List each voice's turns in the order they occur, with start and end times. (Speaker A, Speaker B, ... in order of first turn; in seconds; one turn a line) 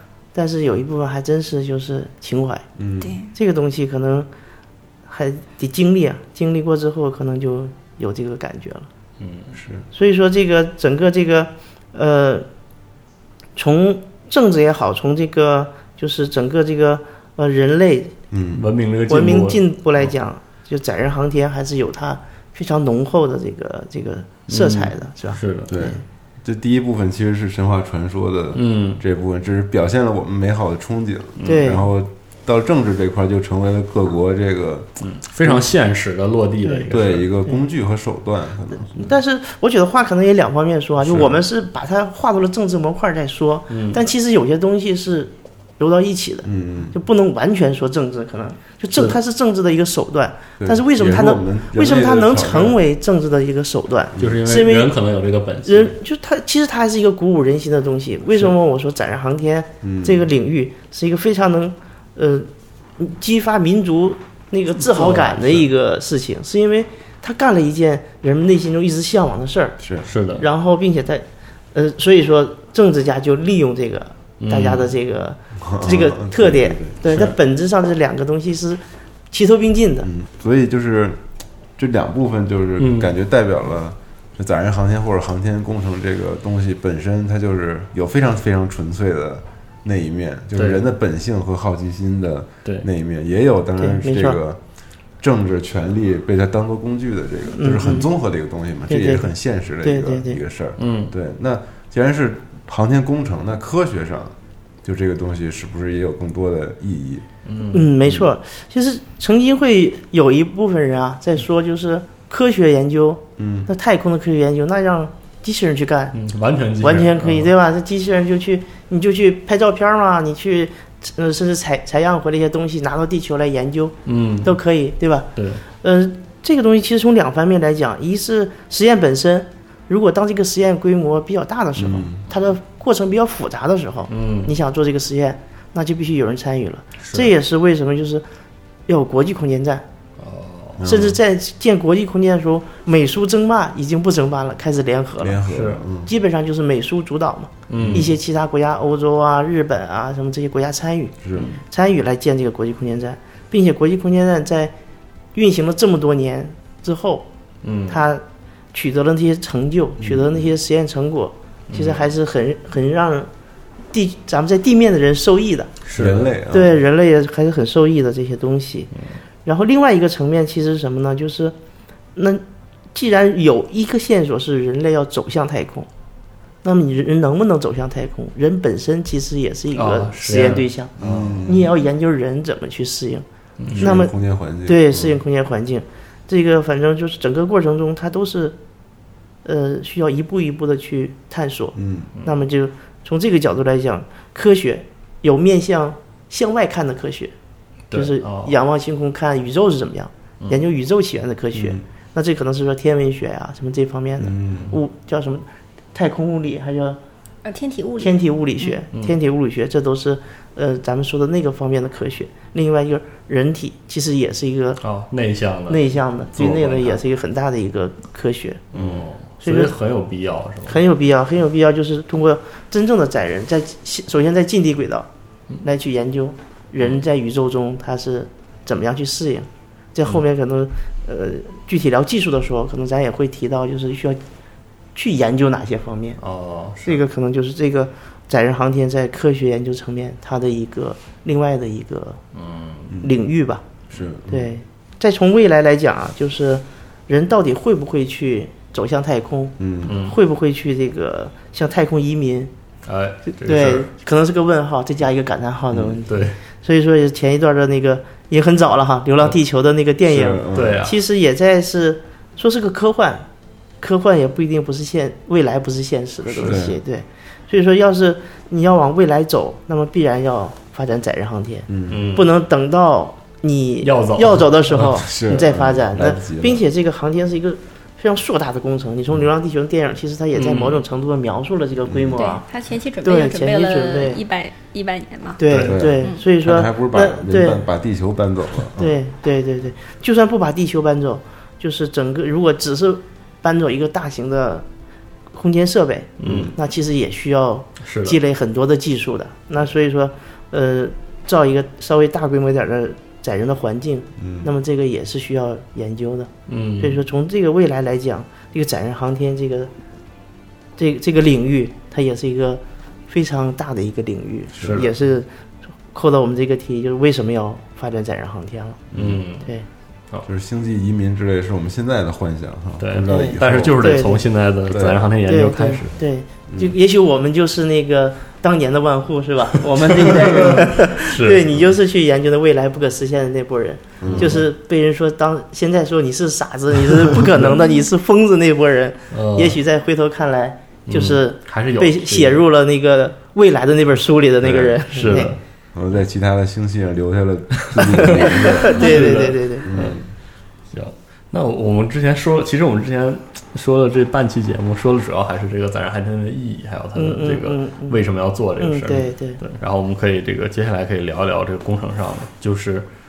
Speaker A: 0.3-2.6
Speaker B: 2.8-3.2
Speaker C: 3.0-3.3
Speaker A: 3.3-4.3
Speaker A: 5.1-8.9
Speaker D: 9.2-9.6
Speaker B: 9.6-9.8
Speaker A: 9.9-12.5
Speaker A: 13.6-18.1
Speaker B: 18.3-18.6
Speaker D: 18.5-19.6
Speaker A: 19.1-26.0
Speaker D: 24.5-25.8
Speaker B: 25.7-35.6
Speaker D: 28.5-29.0
Speaker D: 31.4-31.7
Speaker A: 31.4-31.9
Speaker D: 35.0-37.3
Speaker A: 36.6-36.9
Speaker B: 36.9-39.2
Speaker A: 38.9-54.9
Speaker D: 41.0-41.3
Speaker D: 43.7-44.0
Speaker B: 46.4-46.9
Speaker B: 50.6-52.8
Speaker B: 54.1-54.4
Speaker D: 54.2-55.9
Speaker A: 55.6-69.8
Speaker B: 59.8-60.3
Speaker D: 64.8-65.7
Speaker B: 69.8-70.1
Speaker D: 70.0-70.5
Speaker A: 70.3-80.1
Speaker D: 74.4-74.9
Speaker B: 75.6-77.0
Speaker D: 77.1-77.3
Speaker B: 80.0-81.2
Speaker B: 81.8-94.6
Speaker D: 82.8-83.1
Speaker D: 90.6-90.8
Speaker A: 93.8-94.4
Speaker B: 95.2-107.2
Speaker A: 97.6-98.1
Speaker A: 98.9-99.3
Speaker A: 99.8-100.4
Speaker D: 100.8-101.1
Speaker D: 107.5-107.9
Speaker A: 107.7-116.2
Speaker B: 113.4-113.7
Speaker D: 116.1-117.5
Speaker A: 116.8-138.2
Speaker D: 124.0-124.5
Speaker D: 125.3-125.6
Speaker B: 131.8-132.2
Speaker D: 134.1-134.5
Speaker D: 137.0-137.3
Speaker A: 138.9-139.8
Speaker D: 140.2-140.8
Speaker B: 140.8-141.2
Speaker A: 140.8-145.4
Speaker B: 145.2-146.1
Speaker D: 145.5-145.8
Speaker A: 146.0-151.2
Speaker D: 147.7-148.1
Speaker B: 147.7-148.1
Speaker B: 151.2-151.5
Speaker A: 151.7-154.7
Speaker A: 155.3-157.2
Speaker D: 157.6-158.0
Speaker A: 157.9-163.3
Speaker B: 160.0-160.5
Speaker D: 161.7-162.0
Speaker A: 163.9-165.7
Speaker D: 165.8-166.3
Speaker B: 165.9-166.8
Speaker A: 166.5-168.9
Speaker A: 169.4-171.5
Speaker A: 172.1-172.4
Speaker A: 172.9-175.9
Speaker A: 176.6-180.9
Speaker D: 179.7-181.5
Speaker B: 181.0-181.7
Speaker A: 181.4-183.2
Speaker D: 183.6-183.9
Speaker B: 183.7-185.2
Speaker A: 183.8-184.1
Speaker A: 184.7-188.6
Speaker A: 189.4-197.3
Speaker B: 191.8-192.1
Speaker D: 197.9-198.6
Speaker A: 197.9-207.0
Speaker B: 201.6-201.8
Speaker B: 204.2-204.7
Speaker C: 207.4-208.8
Speaker A: 208.0-214.8
Speaker D: 214.8-217.0
Speaker A: 215.7-218.7
Speaker D: 218.7-220.8
Speaker A: 219.4-219.7
Speaker A: 220.7-225.1
Speaker A: 225.6-234.2
Speaker A: 234.9-236.2
Speaker D: 236.2-237.0
Speaker A: 236.8-242.2
Speaker D: 242.3-242.9
Speaker A: 243.0-243.6
Speaker B: 243.9-244.5
Speaker A: 244.3-252.5
Speaker B: 249.6-249.9
Speaker D: 249.8-250.2
Speaker D: 252.8-253.9
Speaker A: 253.4-263.2
Speaker B: 255.7-256.0
Speaker D: 256.1-256.4
Speaker B: 260.1-260.8
Speaker D: 260.5-260.9
Speaker A: 263.8-282.4
Speaker B: 266.4-266.8
Speaker B: 271.7-272.0
Speaker D: 271.9-272.3
Speaker D: 273.8-275.0
Speaker B: 274.8-276.6
Speaker D: 280.3-280.8
Speaker B: 281.9-282.3
Speaker C: 282.1-285.4
Speaker A: 283.0-284.2
Speaker A: 285.4-287.6
Speaker D: 285.5-285.8
Speaker B: 285.6-288.9
Speaker A: 288.8-294.6
Speaker A: 295.3-309.7
Speaker D: 296.2-296.5
Speaker B: 296.2-296.5
Speaker D: 297.8-298.2
Speaker B: 304.2-304.5
Speaker D: 306.5-307.0
Speaker A: 310.8-315.3
Speaker B: 314.6-314.9
Speaker D: 314.6-314.9
Speaker A: 315.9-318.8
Speaker B: 318.9-319.2
Speaker D: 318.9-319.5
Speaker B: 320.2-324.0
Speaker D: 322.8-326.0
Speaker A: 323.1-324.2
Speaker B: 324.7-325.0
Speaker A: 325.2-345.4
Speaker B: 330.0-330.6
Speaker D: 330.1-331.4
Speaker B: 334.0-334.4
Speaker D: 334.0-334.4
Speaker D: 339.1-339.6
Speaker D: 340.9-342.4
Speaker B: 344.4-349.0
Speaker D: 344.9-345.4
Speaker D: 347.7-350.1
Speaker A: 347.8-349.7
Speaker B: 349.6-350.1
Speaker D: 350.7-362.9
Speaker A: 356.9-358.0
Speaker A: 358.6-359.4